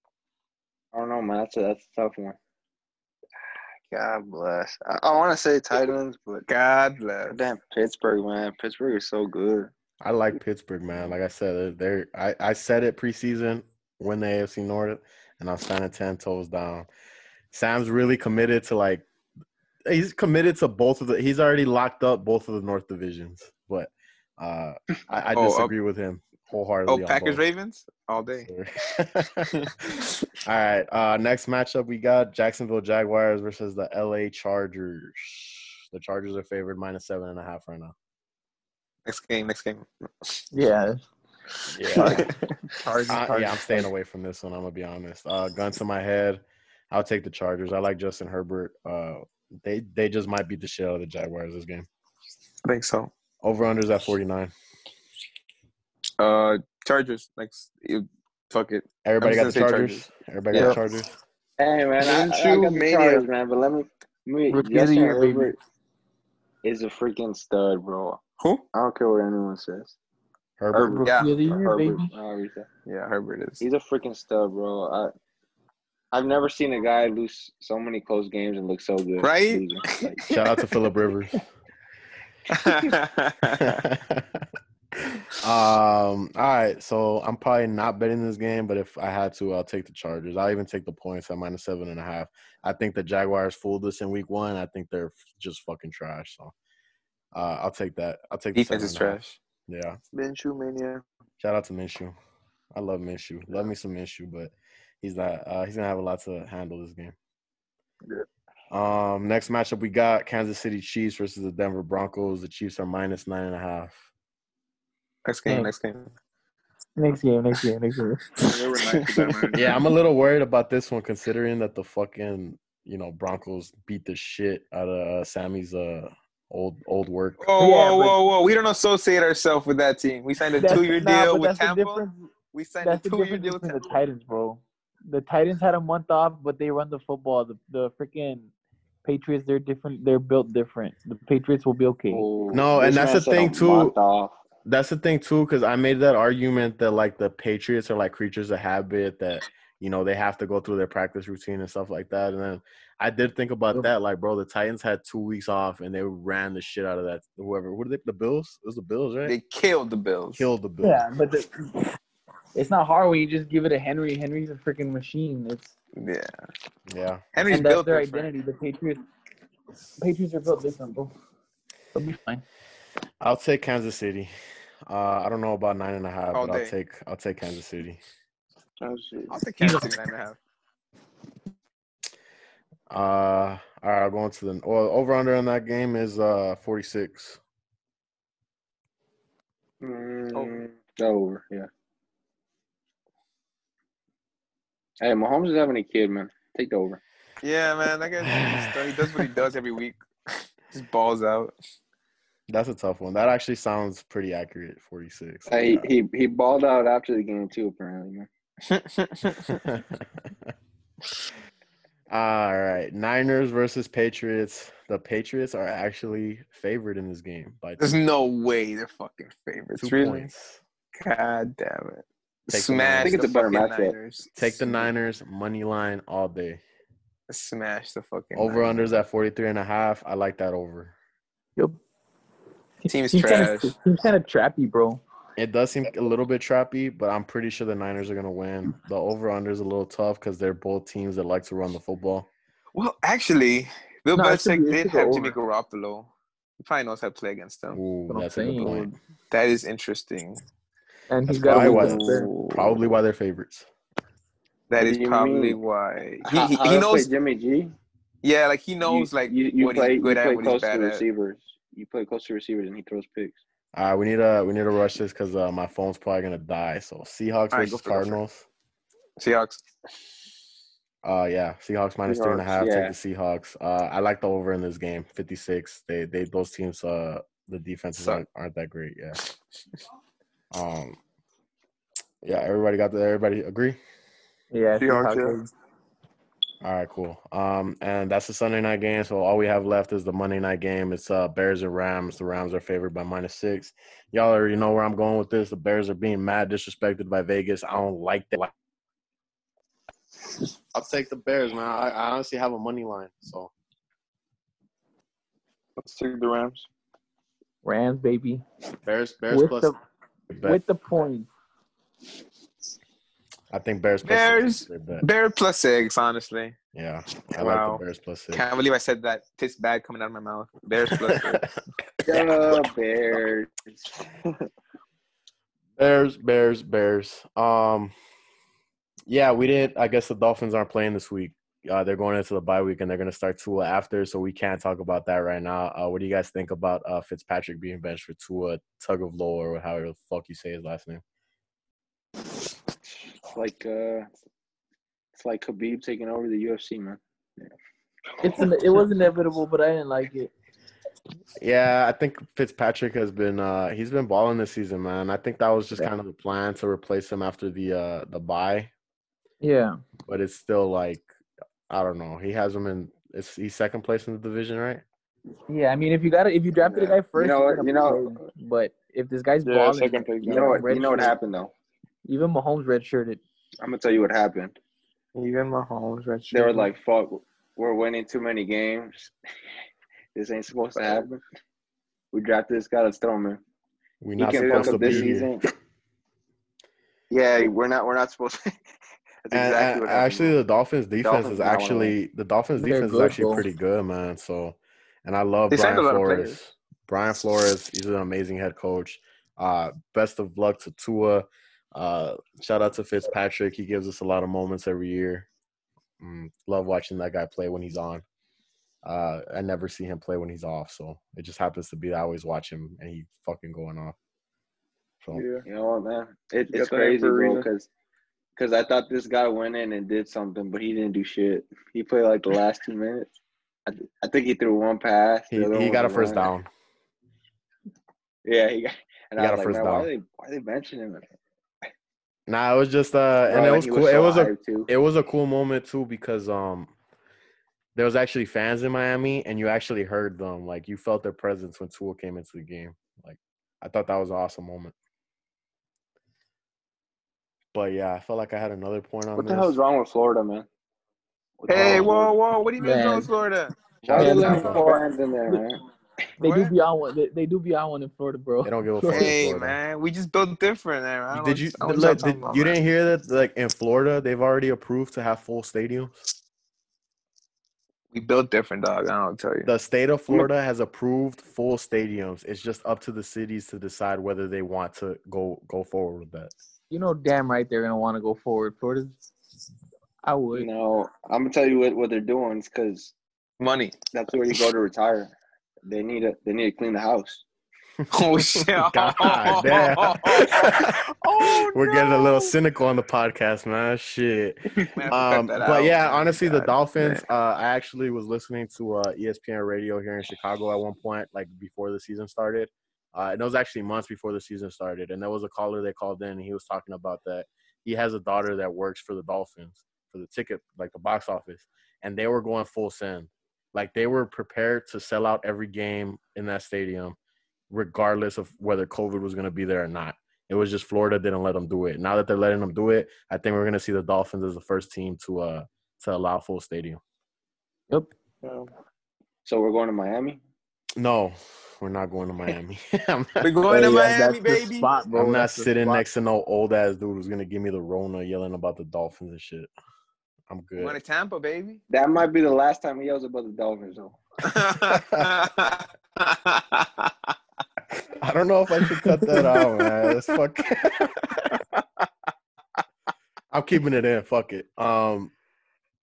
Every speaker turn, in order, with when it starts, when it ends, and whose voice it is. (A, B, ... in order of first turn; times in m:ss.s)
0:00.9-0:02.4 A
0:03.9-0:06.4 A
0:06.5-0:07.4 B
0:07.3-0:09.7 A
0:10.0-0:16.9 C
0:17.5-0:19.0 C
0:19.8-0:27.4 C
0:25.3-0:25.7 B
0:26.9-0:28.5 B
0:28.4-0:37.9 C
0:39.0-0:40.4 B
0:40.5-0:41.0 D
0:41.7-0:42.3 C
0:41.9-0:42.3 D
0:41.9-0:42.3 B
0:42.8-0:43.9 D
0:43.1-0:51.9 C
0:52.6-0:53.1 B
0:53.4-0:54.5 C
0:56.2-1:00.8 B
0:59.0-1:01.1 C
1:01.6-1:05.6 A
1:02.0-1:03.2 E
1:04.5-1:05.5 D
1:06.6-1:08.2 A
1:08.4-1:08.6 B
1:08.7-1:09.9 A
1:10.6-1:11.0 C
1:10.7-1:12.7 A
1:10.9-1:12.1 D
1:11.0-1:11.3 B
1:12.8-1:13.6 B
1:13.6-1:15.1 A
1:16.1-1:20.2 A
1:19.2-1:20.9 B
1:20.3-1:21.4 C
1:22.5-1:23.8 B
1:23.6-1:24.4 C
1:25.1-1:36.5 C
1:37.3-1:40.0 C
1:38.5-1:39.4 B
1:40.1-1:41.0 E
1:41.4-1:42.1 C
1:42.7-1:47.1 C
1:48.7-1:54.0 C
1:55.2-1:56.1 B
1:57.0-1:58.2 D
1:58.4-1:59.8 E
1:58.8-1:59.5 B
1:59.5-2:07.4 C
2:07.4-2:13.9 B
2:07.6-2:08.1 D
2:10.6-2:12.2 D
2:12.8-2:18.5 D
2:19.0-2:22.2 D
2:22.1-2:24.4 A
2:22.5-2:23.9 C
2:24.6-2:39.4 C
2:39.2-2:40.5 B
2:40.4-2:41.0 C
2:40.8-2:41.7 D
2:42.5-2:45.7 D
2:46.0-2:46.3 B
2:46.9-2:47.2 C
2:47.3-2:48.3 B
2:47.5-2:49.0 D
2:50.0-2:51.1 D
2:51.9-2:52.4 D
2:53.2-2:54.3 C
2:54.9-2:58.0 C
2:56.3-2:56.7 B
2:58.8-2:59.4 E
2:59.3-3:00.4 B
2:59.6-2:59.9 D
3:02.9-3:07.4 C
3:09.8-3:11.7 A
3:15.0-3:17.0 A
3:17.4-3:20.0 B
3:18.2-3:19.3 C
3:20.7-3:21.5 B
3:22.5-3:25.9 C
3:25.5-3:28.3 A
3:28.6-3:29.6 B
3:29.4-3:30.5 C
3:32.1-3:37.9 C
3:37.8-3:40.3 B
3:39.8-3:40.6 C
3:40.9-3:44.9 B
3:42.5-3:43.2 C
3:43.0-3:43.9 A
3:44.4-3:46.6 C
3:47.3-3:49.0 B
3:48.3-3:50.9 C
3:52.8-3:55.0 D
3:52.9-3:53.7 B
3:55.4-4:02.3 C
4:02.7-4:07.8 B
4:04.1-4:05.3 D
4:07.7-4:09.0 C
4:08.1-4:08.9 D
4:09.3-4:10.4 B
4:11.1-4:12.3 D
4:11.2-4:13.7 C
4:11.6-4:12.7 B
4:14.7-4:17.1 B
4:14.8-4:15.6 A
4:16.2-4:17.7 A
4:18.2-4:21.0 B
4:18.8-4:23.4 A
4:23.7-4:28.5 C
4:27.5-4:28.2 B
4:29.2-4:29.6 B
4:31.0-4:39.2 C
4:32.1-4:32.4 E
4:32.5-4:33.0 A
4:38.0-4:38.2 B
4:40.5-4:41.0 C
4:42.2-4:43.8 C
4:44.5-4:45.5 D
4:44.8-4:45.4 E
4:46.6-4:58.5 C
5:00.7-5:03.5 C
5:05.8-5:06.7 E
5:07.6-5:08.4 D
5:08.8-5:09.7 C
5:09.3-5:09.8 D
5:10.3-5:10.6 C
5:10.4-5:11.3 D
5:13.5-5:15.0 C
5:14.0-5:16.5 B
5:16.7-5:18.4 C
5:17.3-5:21.5 B
5:20.9-5:21.4 C
5:22.1-5:23.9 A
5:25.8-5:27.9 C
5:29.1-5:41.0 C
5:43.3-5:44.1 A
5:45.1-5:47.5 A
5:48.2-5:50.3 D
5:51.4-5:58.7 C
5:59.4-5:59.8 D
6:00.1-6:01.0 C
6:01.7-6:04.8 C
6:05.5-6:11.2 D
6:06.6-6:07.0 E
6:07.1-6:08.2 A
6:09.4-6:10.6 E
6:10.2-6:11.5 A
6:12.0-6:13.2 D
6:13.6-6:14.6 A
6:15.1-6:16.7 B
6:16.3-6:19.1 A
6:20.1-6:21.2 A
6:22.1-6:23.4 A
6:24.0-6:25.3 C
6:24.2-6:25.4 A
6:24.4-6:25.1 E
6:27.1-6:28.5 A
6:29.2-6:30.4 A
6:29.3-6:45.2 C
6:31.0-6:32.0 A
6:32.6-6:33.4 D
6:35.5-6:36.4 B
6:46.0-6:48.0 C
6:48.8-6:54.0 C
6:55.1-6:55.4 E
6:55.4-6:57.7 A
6:56.5-6:57.5 E
6:58.4-7:03.1 A
7:03.7-7:06.3 A
7:05.3-7:06.5 C
7:08.2-7:11.1 A
7:09.2-7:09.9 C
7:12.3-7:16.7 C
7:13.3-7:14.7 A
7:17.7-7:24.7 C
7:27.5-7:29.6 C
7:29.2-7:30.5 A
7:31.4-7:32.2 A
7:31.5-7:33.5 B
7:31.5-7:31.9 C
7:32.6-7:33.1 D
7:33.8-7:34.7 C
7:33.8-7:35.6 A
7:33.9-7:35.4 D
7:36.2-7:39.1 D
7:36.2-7:36.5 B
7:38.4-7:39.6 C
7:38.9-7:42.6 B
7:41.1-7:46.1 C
7:47.9-7:49.5 B
7:49.4-7:56.3 C
7:56.7-7:59.0 D
8:00.0-8:00.5 D
8:00.4-8:02.9 A
8:03.4-8:03.8 B
8:03.9-8:05.1 A
8:05.6-8:07.2 A
8:07.8-8:37.0 C
8:07.9-8:12.3 B
8:14.8-8:17.0 B
8:37.5-8:46.8 C
8:48.2-8:48.5 E
8:49.2-8:50.2 A
8:50.8-8:53.3 C
8:53.2-8:54.7 B
8:53.5-8:55.8 D
8:54.9-8:59.5 C
9:00.3-9:00.8 C
9:00.6-9:01.6 B
9:01.7-9:04.0 A
9:04.2-9:06.9 B
9:04.6-9:05.2 C
9:07.9-9:11.6 C
9:13.3-9:15.1 C